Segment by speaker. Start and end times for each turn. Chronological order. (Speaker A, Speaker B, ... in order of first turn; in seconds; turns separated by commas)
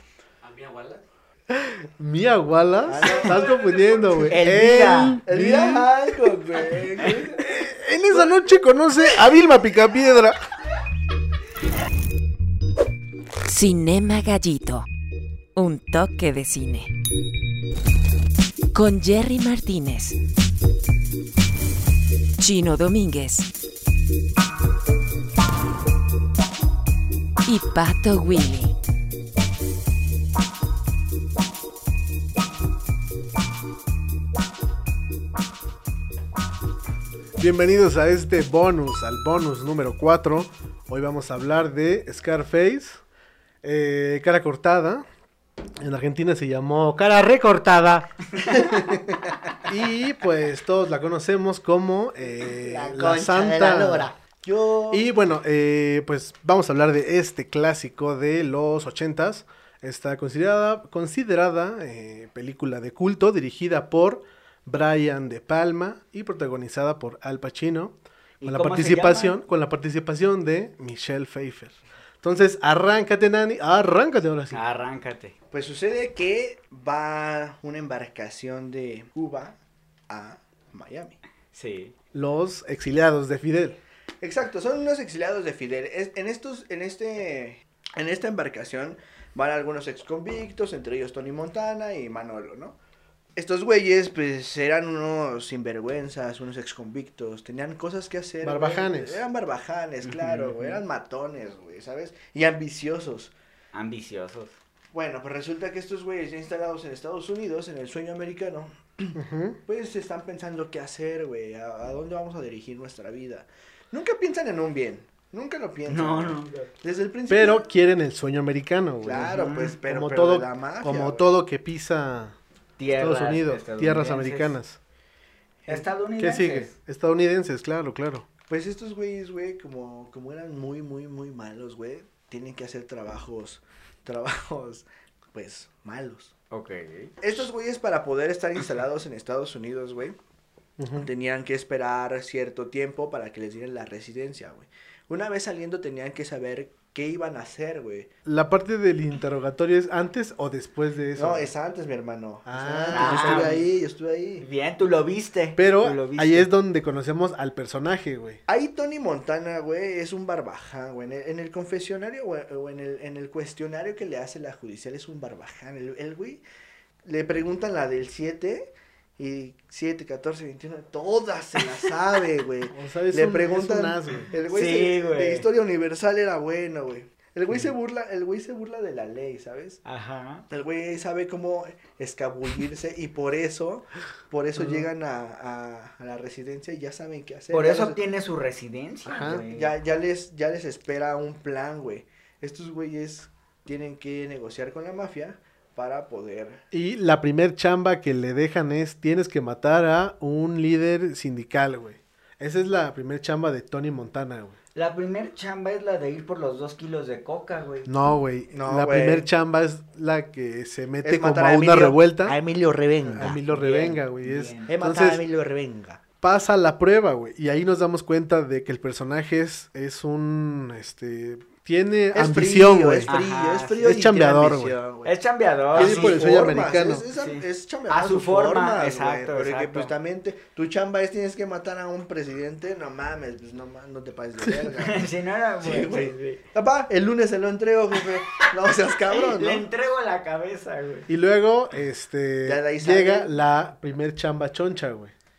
Speaker A: 0.5-1.0, Speaker B: 1.5-5.9, Speaker C: 2.9-3.5, Speaker D: 4.2-5.2, Speaker C: 5.3-7.4, Speaker B: 7.4-10.4, Speaker E: 13.4-14.8, Speaker A: 13.5-14.8, Speaker E: 15.6-16.9, Speaker A: 15.6-16.8, Speaker E: 18.7-20.1, Speaker A: 18.7-20.1, Speaker E: 22.4-23.5, Speaker E: 27.5-28.8, Speaker B: 37.4-43.0, Speaker B: 43.6-45.0, Speaker B: 45.8-48.7, Speaker D: 48.4-48.7, Speaker C: 48.7-49.4, Speaker B: 49.7-54.1, Speaker C: 52.4-55.1, Speaker B: 54.9-74.6, Speaker D: 68.4-69.4, Speaker D: 74.5-75.3, Speaker C: 75.5-79.6, Speaker C: 80.1-81.2, Speaker D: 81.5-81.9, Speaker B: 82.1-83.8, Speaker C: 84.2-92.8, Speaker C: 93.3-103.3, Speaker B: 98.4-99.2, Speaker D: 100.0-100.8, Speaker D: 103.7-104.5, Speaker C: 104.9-117.7, Speaker B: 109.1-109.6, Speaker D: 115.9-116.7, Speaker B: 117.3-122.4, Speaker C: 119.0-121.3, Speaker D: 119.3-119.8, Speaker D: 122.8-124.6, Speaker B: 122.9-124.8, Speaker D: 125.7-126.7, Speaker B: 126.2-128.2, Speaker C: 128.5-136.3, Speaker D: 136.5-137.1, Speaker C: 137.2-140.2, Speaker B: 140.8-141.1, Speaker C: 140.9-148.1, Speaker B: 148.2-151.5, Speaker C: 151.1-154.4, Speaker B: 152.4-153.6, Speaker D: 152.9-153.6, Speaker D: 154.4-156.5, Speaker B: 155.6-158.4, Speaker C: 158.5-166.4, Speaker C: 167.0-179.8, Speaker B: 172.7-174.3, Speaker D: 174.5-175.4, Speaker D: 179.8-180.4, Speaker C: 180.5-188.0, Speaker B: 184.6-184.8, Speaker D: 187.5-189.7, Speaker B: 189.1-189.4, Speaker C: 189.4-196.6, Speaker B: 196.7-204.6, Speaker D: 204.7-207.9, Speaker B: 207.8-212.4, Speaker C: 208.5-209.3, Speaker C: 211.0-213.4, Speaker B: 213.0-215.2, Speaker D: 213.2-214.7, Speaker C: 214.7-216.0, Speaker B: 216.2-223.1, Speaker C: 222.1-225.1, Speaker D: 223.1-223.9, Speaker B: 223.8-224.8, Speaker D: 225.0-226.2, Speaker C: 225.7-239.7, Speaker B: 225.7-227.0, Speaker D: 227.1-229.9, Speaker D: 234.8-236.4, Speaker D: 239.1-241.1, Speaker B: 241.1-245.1, Speaker C: 242.4-243.3